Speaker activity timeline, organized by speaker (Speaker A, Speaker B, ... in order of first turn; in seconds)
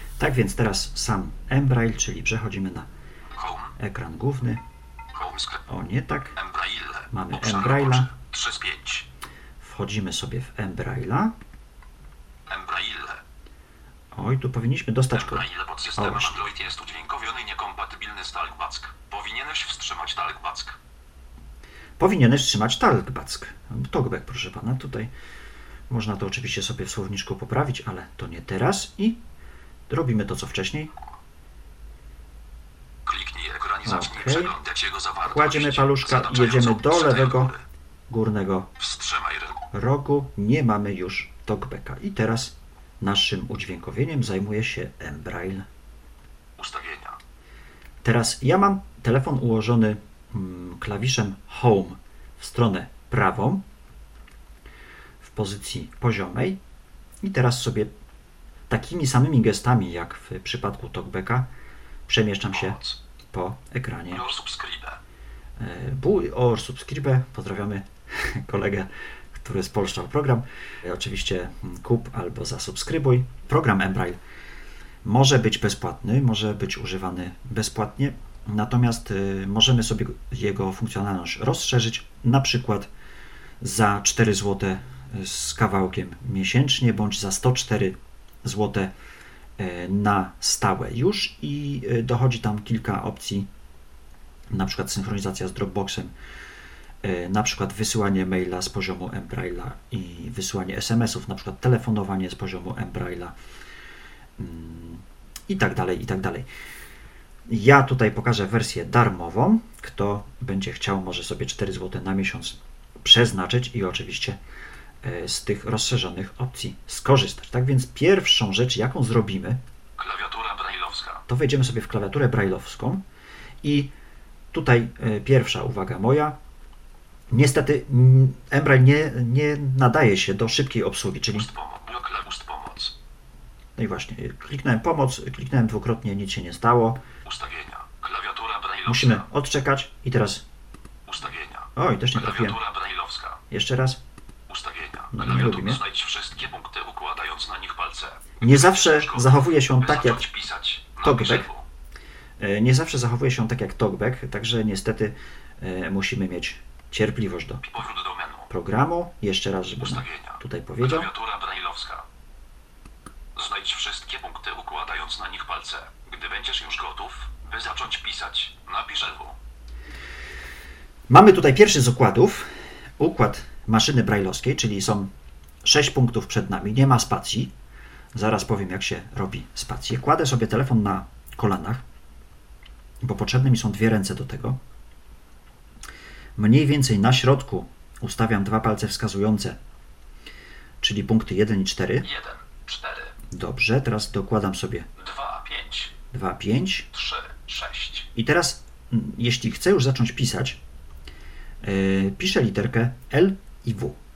Speaker A: 0.2-2.9, 3.8-4.6, 5.7-6.4, 7.1-8.1, 9.6-11.3, 14.1-16.4, 22.0-25.1, 25.9-29.2, 29.9-30.9, 33.8-34.5, 35.2-37.5, 38.1-38.7, 39.7-45.7, 48.0-53.6, 55.2-56.6, 57.2-57.9, 58.7-61.5, 62.1-62.8, 63.3-64.2, 65.6-74.2, 75.0-82.9, 83.6-88.9, 89.6-93.5, 94.5-96.1, 97.0-103.3, 104.4-106.5, 107.5-114.4, 115.0-119.6, 121.3-123.0, 123.6-123.9, 124.5-126.4, 127.3-131.5, 133.8-137.0, 138.8-140.4, 141.8-142.6, 143.5-144.0, 145.1-145.8, 148.4-150.3, 151.0-151.5, 152.4-157.6, 158.5-161.1, 171.1-175.1, 175.6-177.5, 178.1-181.8, 183.0-184.6, 186.4-189.6, 190.8-192.1, 193.3-194.9, 196.1-196.9, 198.1-200.6, 201.6-204.0
Speaker B: 3.3-3.7, 5.1-5.7, 6.3-9.1, 12.5-13.2, 15.1-20.8, 33.0-37.6, 38.8-39.6, 46.6-47.2, 62.5-63.0, 64.1-65.0, 120.0-121.2, 131.3-132.9, 137.2-139.2, 141.1-143.4, 144.5-151.7, 157.6-158.5, 159.8-162.1, 163.3-169.4, 192.0-193.1, 195.0-195.9, 196.9-198.1